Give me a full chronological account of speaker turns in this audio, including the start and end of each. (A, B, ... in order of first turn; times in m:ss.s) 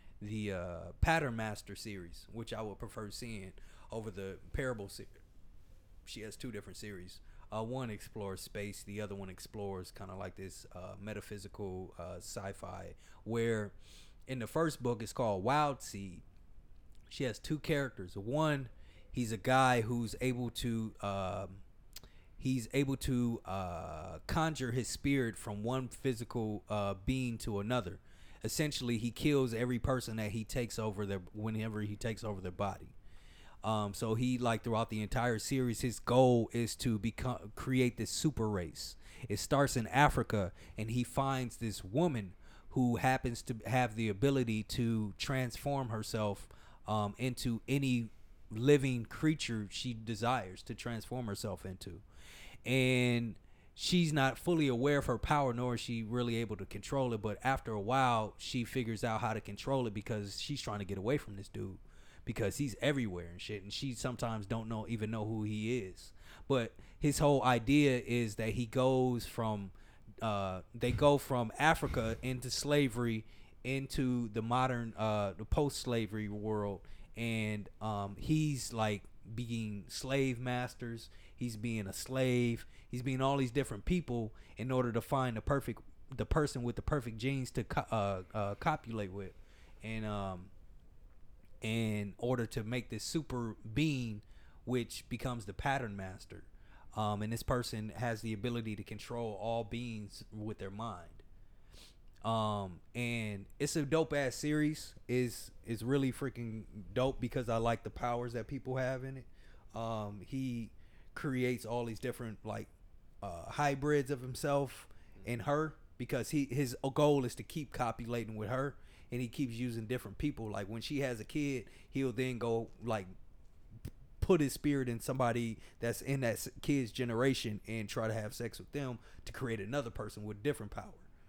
0:00.2-0:05.1 A
0:06.0-0:13.7 A
0:14.3-0:16.2 A
0:17.1-0:21.6 A
0:22.4-0:32.9 A
0:33.6-0:52.0 A
0:52.6-1:30.5 A
1:31.6-1:41.2 A
1:42.2-1:52.7 A
1:53.2-2:03.1 A
2:04.2-2:11.0 A